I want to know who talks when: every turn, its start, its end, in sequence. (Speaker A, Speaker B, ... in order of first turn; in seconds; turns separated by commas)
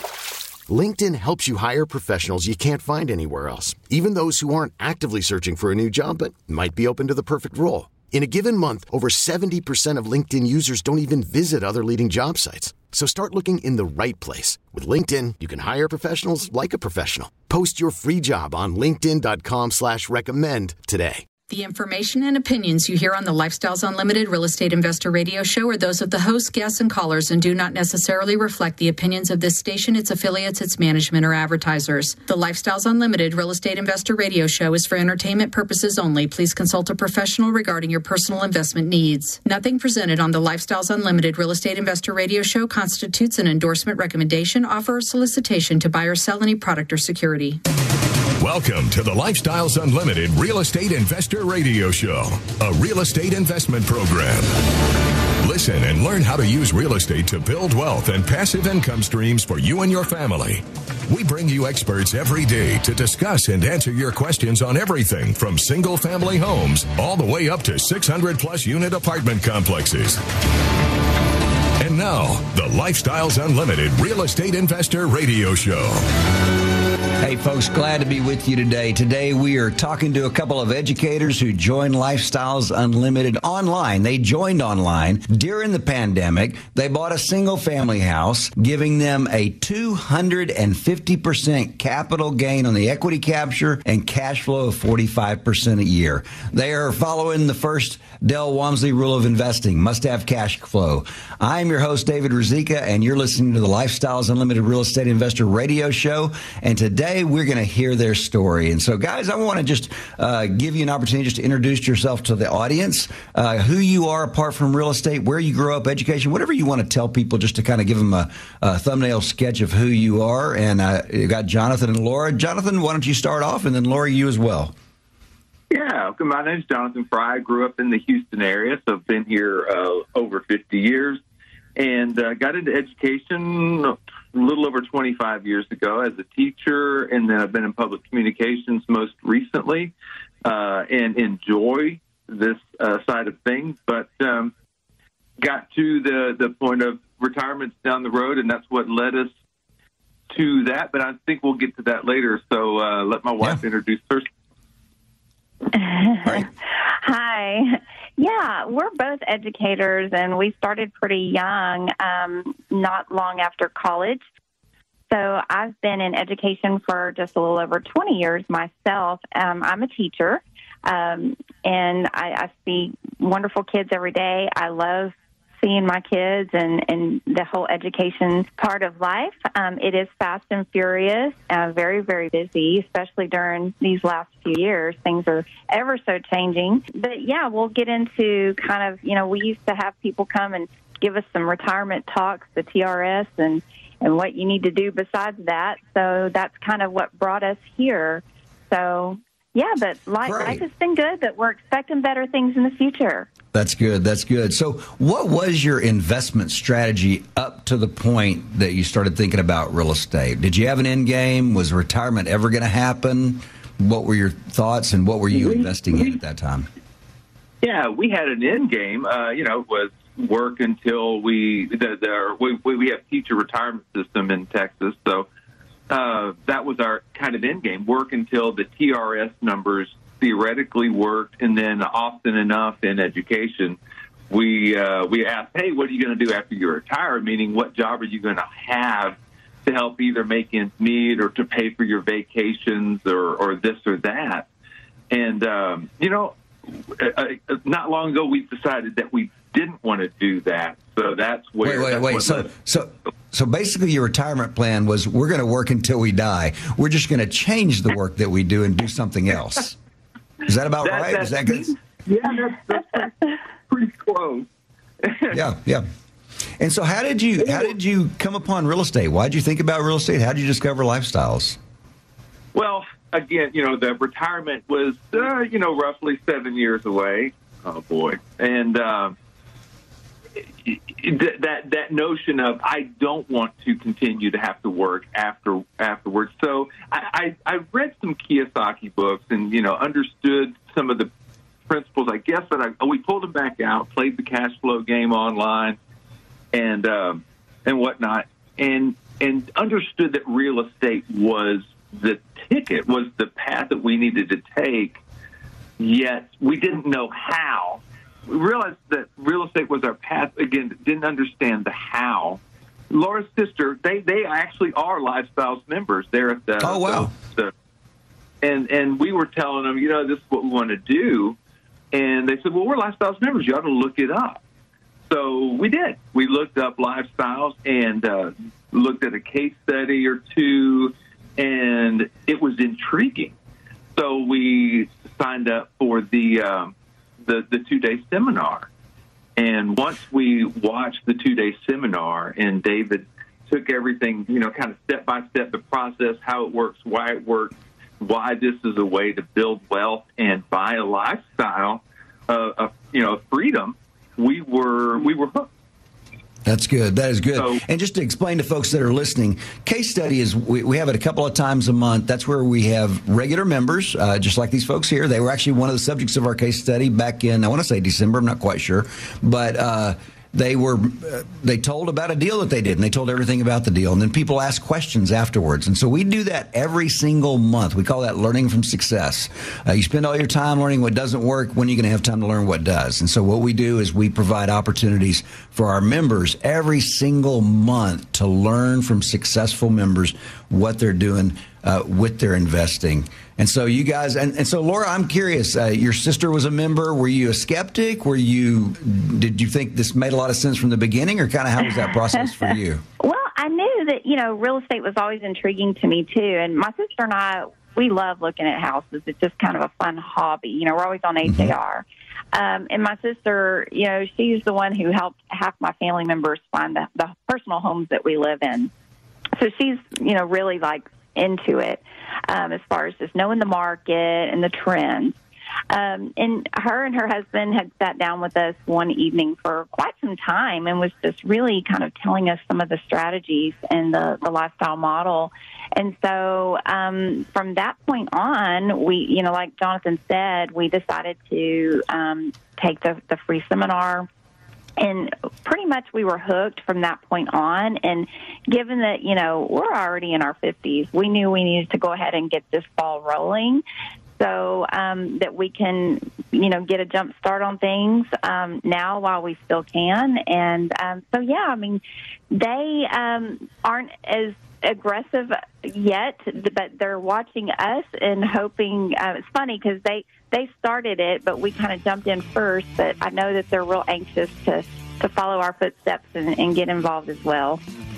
Speaker A: 0.7-21.3, Speaker B: 21.5-47.6, Speaker C: 48.4-54.6, Speaker C: 55.4-70.2, Speaker C: 71.8-76.1, Speaker D: 77.2-124.7, Speaker E: 125.7-131.2, Speaker E: 131.8-139.9, Speaker E: 140.4-144.5, Speaker E: 145.4-149.3, Speaker E: 150.3-154.3, Speaker F: 155.7-164.2, Speaker F: 165.1-203.3, Speaker D: 200.2-200.6, Speaker D: 203.5-216.7, Speaker E: 215.3-215.7, Speaker E: 217.6-225.3, Speaker E: 225.9-233.8, Speaker E: 234.3-244.5, Speaker E: 245.1-252.5, Speaker D: 251.6-259.8, Speaker D: 260.4-261.8, Speaker E: 260.8-264.5, Speaker E: 265.0-265.4, Speaker D: 265.3-265.9, Speaker D: 266.6-271.6, Speaker E: 267.4-267.7, Speaker E: 272.5-279.2, Speaker E: 280.6-291.1, Speaker E: 291.7-295.8, Speaker E: 296.5-305.0, Speaker E: 305.8-317.5, Speaker D: 316.6-317.1, Speaker E: 318.4-321.4, Speaker E: 321.9-324.4, Speaker E: 325.1-333.4, Speaker E: 334.0-336.7, Speaker E: 337.2-338.7, Speaker E: 339.4-355.5, Speaker D: 356.5-402.8, Speaker E: 357.4-357.6, Speaker F: 403.0-418.7, Speaker D: 411.2-411.6, Speaker F: 419.4-425.2, Speaker F: 425.7-444.1, Speaker F: 444.8-453.6, Speaker F: 454.2-477.6